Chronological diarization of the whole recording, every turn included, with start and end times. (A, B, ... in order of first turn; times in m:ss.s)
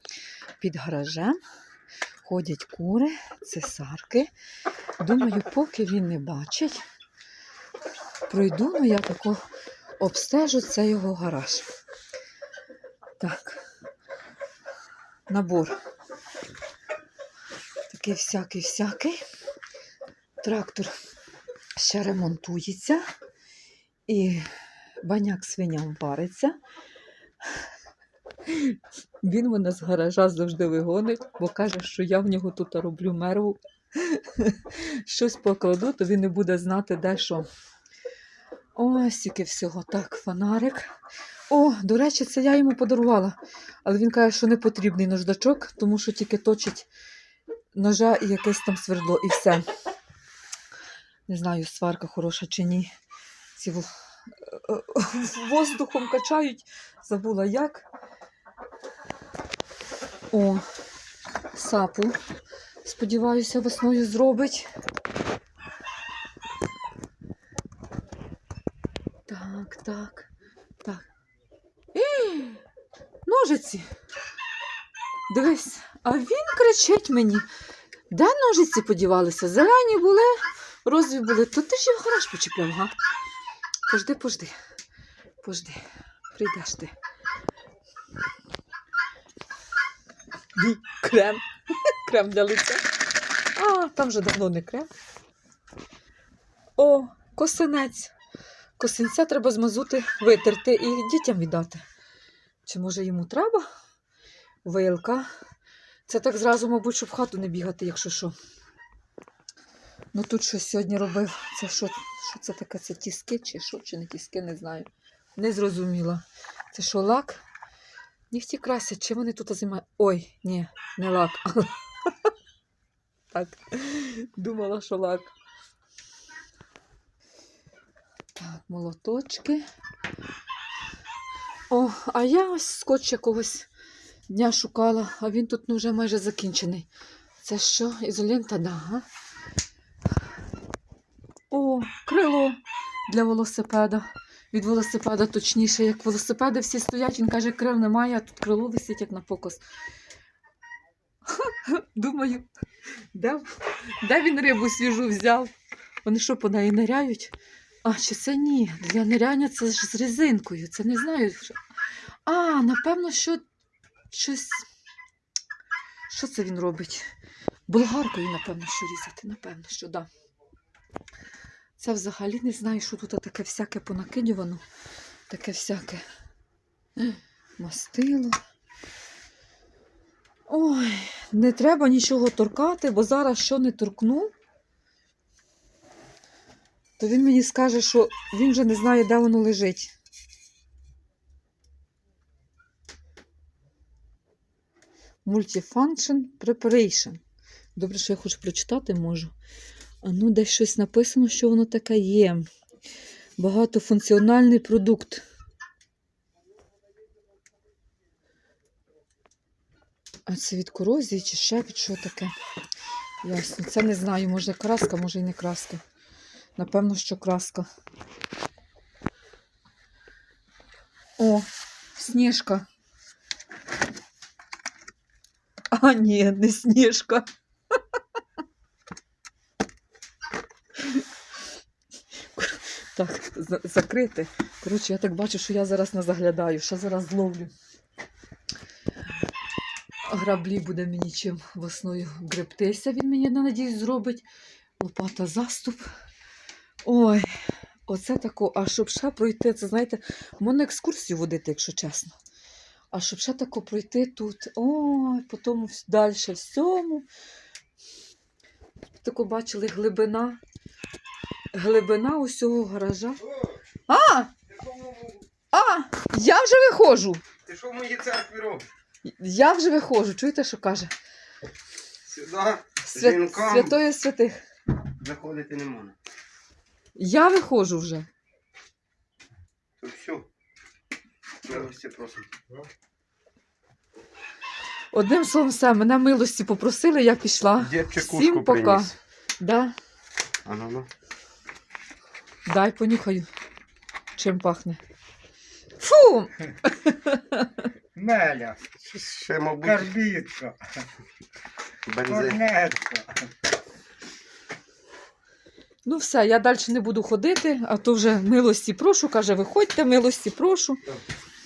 0:00.6-0:01.4 A
0:02.2-0:04.3 A
0:05.0-0:06.8 A
0:08.3-0:09.4 A
0:10.0-0:11.7 A
0:13.2-0:13.6 A
0:15.3-0:15.7 A
0:17.9-0:19.2 A
0:20.4-0:20.9 A
0:21.8-0:23.0 A
0:24.1-0:24.4 A
0:25.0-0:26.6 A
0:28.4-0:37.5 A
0:38.7-0:40.9 A
0:41.5-0:46.9 A
0:47.7-0:49.7 A
0:51.3-0:52.9 A
0:53.5-0:57.9 A
1:00.3-1:00.6 A
1:01.5-1:02.2 A
1:02.8-1:04.7 A
1:09.3-1:10.3 A
1:11.9-1:12.6 A
1:13.2-1:13.9 A
1:15.3-1:17.4 A
1:18.1-1:22.9 A
1:23.9-1:24.5 A
1:25.4-1:25.8 A
1:26.3-1:26.9 A
1:30.5-1:32.8 A
1:33.5-1:34.9 A
1:36.8-1:38.1 A
1:38.8-1:41.8 A
1:42.6-1:43.7 A
1:44.6-1:45.3 A
1:46.1-1:48.4 A
1:50.1-1:57.4 A
1:58.3-2:02.3 A
2:03.3-2:05.3 A
2:08.4-2:09.6 A
2:11.7-2:13.7 A
2:14.3-2:16.9 A
2:17.4-2:19.0 A
2:21.5-2:29.6 A
2:31.3-2:32.5 A
2:33.1-2:35.5 A
2:36.0-2:41.6 A
2:42.2-2:43.4 A
2:44.1-2:44.6 A
2:46.1-2:47.1 A
2:47.7-2:50.1 A
2:51.8-2:54.6 A
2:55.3-2:56.0 A
2:57.0-2:58.4 A
3:00.5-3:04.3 A
3:07.0-3:09.9 A
3:15.2-3:17.2 A
3:17.7-3:19.3 A
3:20.0-3:22.5 A
3:23.4-3:25.2 A
3:30.2-3:32.3 A
3:33.2-3:35.8 A
3:36.6-3:37.7 A
3:41.2-3:42.6 A
3:45.7-3:48.0 A
3:50.8-3:51.0 A
3:52.3-3:57.5 A
4:00.0-4:04.2 A
4:04.8-4:05.9 A
4:06.8-4:07.3 A
4:07.9-4:12.2 A
4:12.9-4:17.1 A
4:19.0-4:20.4 A
4:21.5-4:23.2 A
4:23.9-4:24.3 A
4:24.5-4:25.2 B
4:25.5-4:27.2 A
4:27.4-4:28.6 B
4:29.0-4:30.9 A
4:32.0-4:33.8 B
4:32.9-4:34.4 A
4:35.0-4:36.0 B
4:37.0-4:38.1 A
4:39.8-4:40.3 B
4:41.4-4:42.3 B
4:44.9-4:49.7 A
4:47.6-4:48.9 B
4:50.4-4:50.9 B
4:52.4-4:53.3 A
4:54.2-4:54.8 A
4:55.8-4:57.7 A
4:57.9-4:58.6 C
4:58.7-4:59.9 B
4:59.6-5:00.8 C
5:01.8-5:02.5 B
5:02.1-5:03.2 C
5:05.8-5:10.8 A